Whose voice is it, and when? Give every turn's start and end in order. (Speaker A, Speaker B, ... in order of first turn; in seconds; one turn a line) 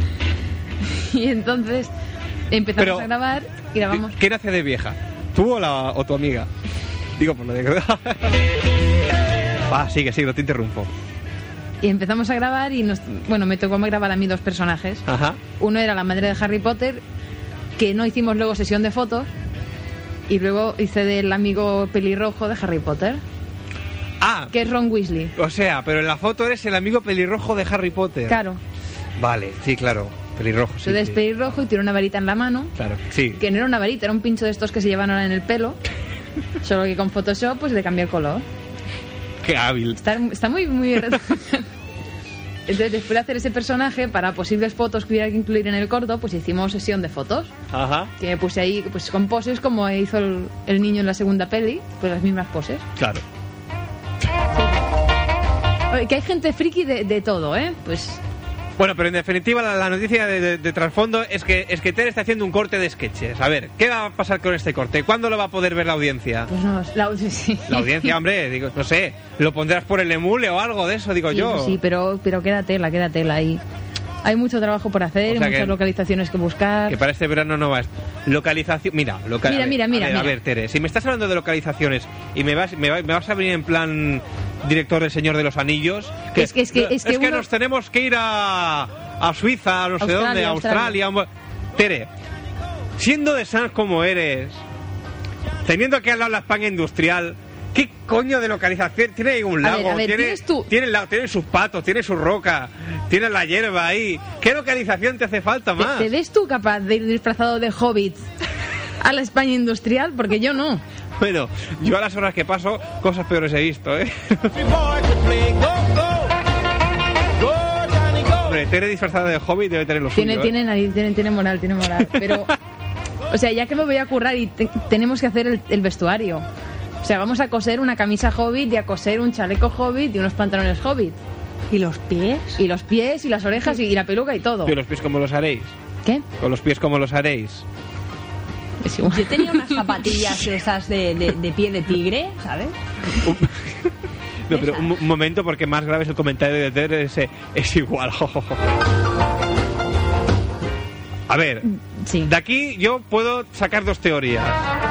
Speaker A: 0.8-1.9
Speaker A: 2.5-4.2
Speaker B: 2.8-3.1
Speaker B: 3.9-6.5
Speaker B: 7.2-8.4
Speaker B: 9.6-10.9
Speaker A: 11.8-15.0
Speaker B: 15.1-15.4
Speaker A: 15.6-17.0
Speaker A: 17.8-19.3
Speaker A: 20.3-23.2
Speaker B: 24.2-24.5
Speaker A: 24.5-25.3
Speaker B: 25.3-28.4
Speaker A: 28.3-28.6
Speaker B: 29.2-31.2
Speaker A: 30.8-32.7
Speaker B: 32.8-33.4
Speaker A: 33.4-35.8
Speaker A: 36.6-38.4
Speaker B: 39.4-40.0
Speaker A: 40.0-41.6
Speaker A: 42.7-47.5
Speaker B: 47.7-48.1
Speaker A: 48.2-52.8
Speaker B: 53.0-53.2
Speaker A: 55.9-58.2
Speaker B: 58.8-66.5
Speaker A: 66.5-68.2
Speaker B: 67.7-71.8
Speaker A: 71.3-73.6
Speaker A: 74.2-77.0
Speaker B: 75.2-75.8
Speaker B: 76.9-92.1
Speaker A: 79.4-80.4
Speaker A: 86.3-87.5
Speaker A: 90.0-91.0
Speaker B: 93.0-94.6
Speaker B: 95.6-106.1
Speaker A: 99.6-100.7
Speaker A: 105.8-108.2
Speaker A: 109.0-110.8
Speaker B: 111.2-115.5
Speaker B: 118.2-120.5
Speaker A: 120.1-122.5
Speaker B: 122.1-122.5
Speaker A: 123.3-126.4
Speaker A: 127.0-131.2
Speaker C: 131.7-132.6
Speaker A: 132.6-134.7
Speaker B: 134.6-135.7
Speaker B: 136.4-137.6
Speaker A: 138.8-140.0
Speaker C: 139.1-142.7
Speaker B: 143.2-143.9
Speaker B: 144.5-148.6
Speaker C: 144.5-144.9
Speaker B: 151.3-151.6
Speaker A: 151.7-152.3
Speaker B: 152.2-154.6